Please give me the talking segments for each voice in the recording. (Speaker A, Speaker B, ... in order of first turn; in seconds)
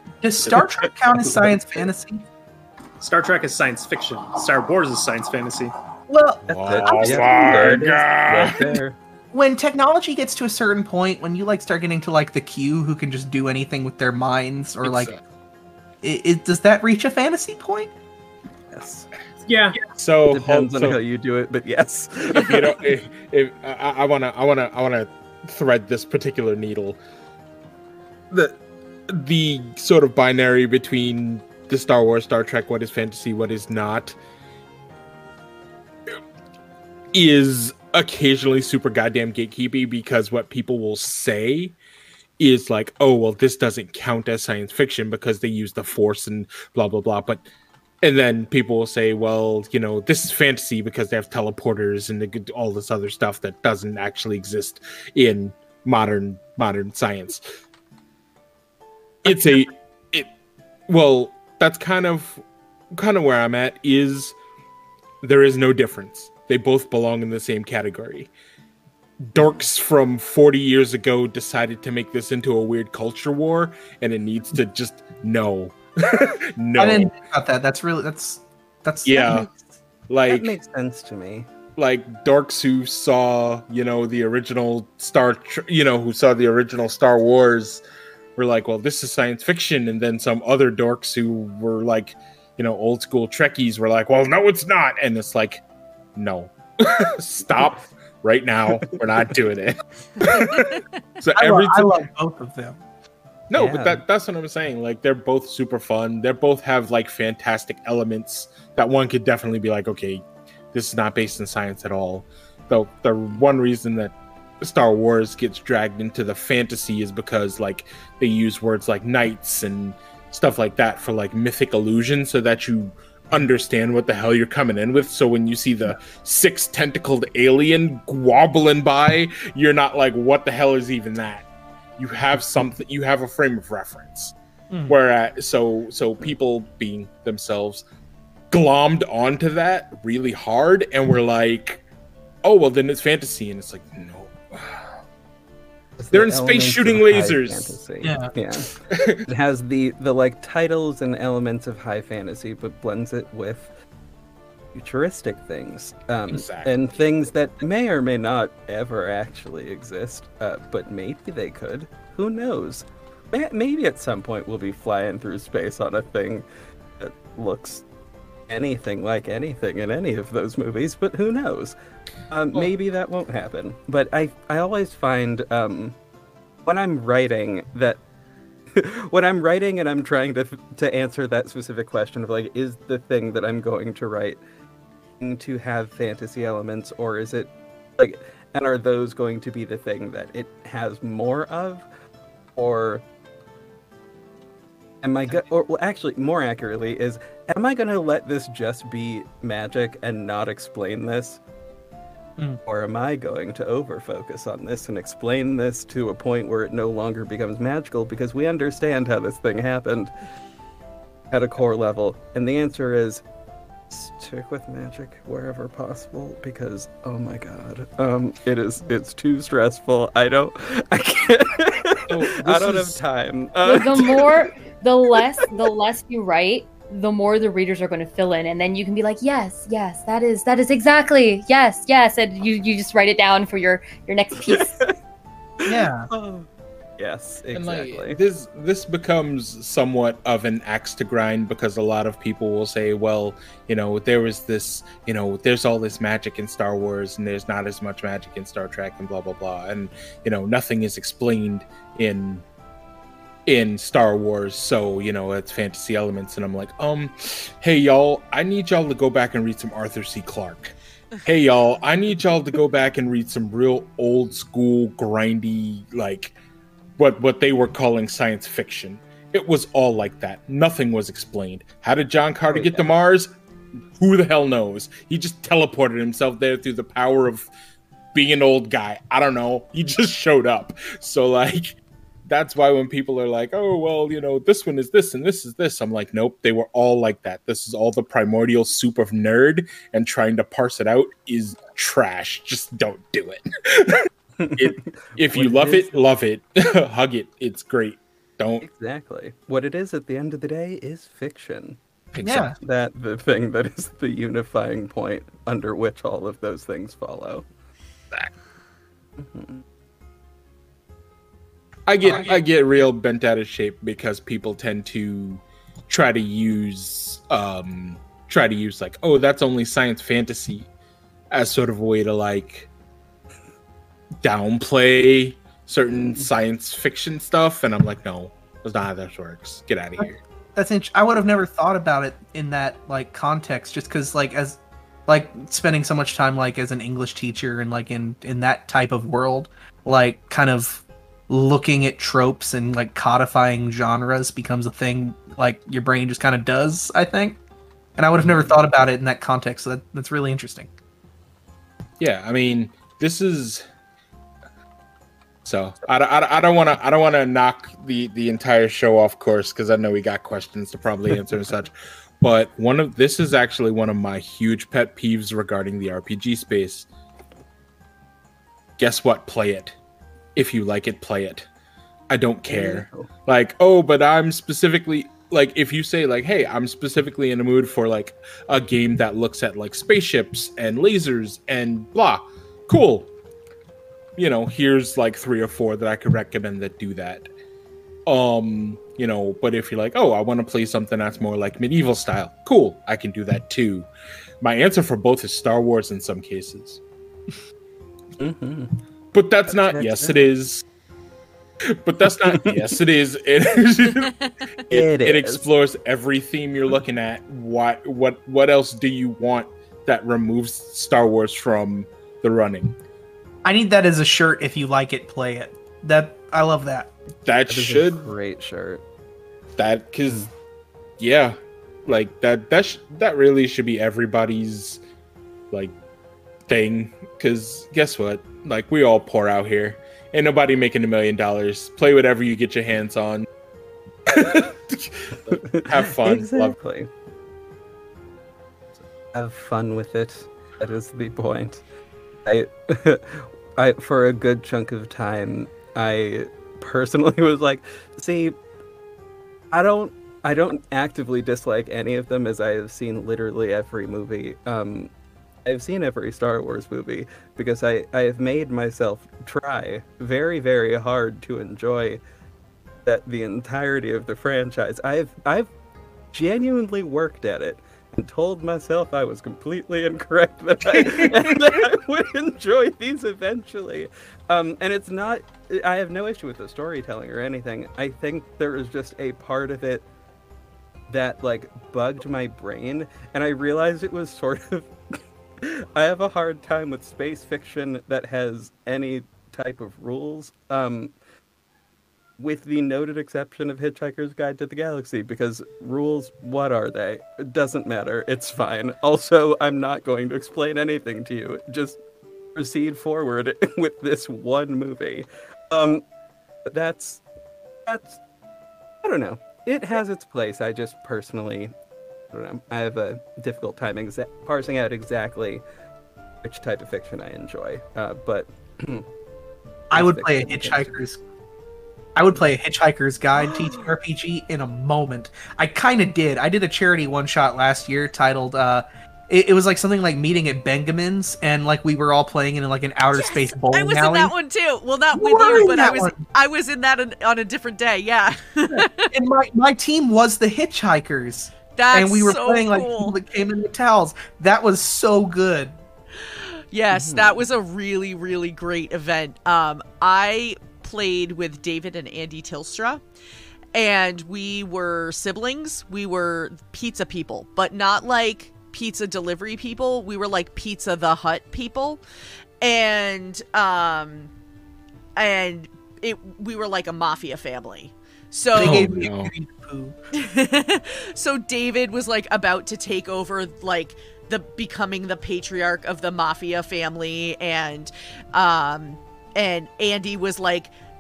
Speaker A: 0.2-2.2, 6.1-7.8, 9.3-15.1, 16.0-17.9, 76.8-79.5, 101.3-102.8, 148.0-148.3, 235.7-236.1, 302.2-302.6, 312.1-312.3, 330.0-347.4, 348.0-350.7, 413.4-416.9, 519.7-521.0, 522.0-534.1, 534.9-536.0, 538.5-545.6, 568.4-569.8
Speaker B: 0.5-1.6, 6.5-9.0, 18.7-19.1, 20.3-22.8, 79.2-79.7, 80.3-81.5, 98.7-99.0, 103.5-104.0, 146.0-148.8, 149.3-153.7, 154.7-166.5, 167.0-167.8, 168.5-171.8, 172.3-176.0, 176.7-178.0, 178.7-184.4, 185.2-191.9, 192.6-193.0, 195.0-201.4, 202.7-210.1, 211.3-213.2, 213.9-224.4, 234.4-234.9, 235.6-238.2, 272.5-272.9, 294.4-296.0, 298.6-301.8, 302.6-307.5, 309.2-309.6, 325.9-326.3, 348.2-348.6, 372.5-373.1, 398.2-398.8, 399.5-400.3, 402.3-402.7, 404.7-405.4, 417.5-418.8, 435.3-436.9, 438.8-441.6, 442.2-448.4, 449.5-454.9, 455.4-462.0, 462.9-465.5, 466.1-479.9, 480.9-484.7, 485.4-490.9, 492.2-501.8, 502.4-505.9, 506.5-507.0, 507.7-508.0, 508.8-511.5, 512.1-515.5, 516.2-518.9, 519.7-520.8, 523.2-523.6, 546.7-547.2
Speaker C: 3.0-5.8, 19.5-19.9
Speaker D: 6.5-8.8, 14.8-15.2, 19.9-21.0, 22.3-27.0, 28.3-34.2, 37.1-41.8, 42.4-47.5, 48.0-57.5, 59.2-60.3, 60.9-62.4, 63.0-64.3, 65.2-68.3, 69.2-77.1, 79.0-79.5, 80.1-80.6, 81.8-87.8, 88.4-95.6, 96.2-101.9, 103.5-134.3, 134.9-137.8, 138.5-141.8, 142.4-145.0, 146.1-147.8, 148.9-149.2, 156.3-156.7, 222.1-223.0, 237.5-252.4, 253.5-266.3, 267.0-273.3, 274.0-277.5, 278.1-298.7, 302.1-302.5, 311.9-320.7, 321.3-322.7, 324.2-330.2, 352.0-353.7, 355.4-366.9, 368.8-369.8, 370.4-371.5, 372.1-383.1, 384.2-387.3, 388.1-393.9, 394.4-396.8, 399.1-400.6, 401.8-412.8, 417.2-418.1, 419.6-420.3, 421.0-424.8, 426.5-433.3, 434.1-436.6, 568.4-569.1
Speaker E: 223.6-234.8
Speaker F: 532.9-538.9, 541.6-543.0, 546.0-552.8, 553.5-561.8, 562.4-564.1, 565.0-568.8, 570.0-580.5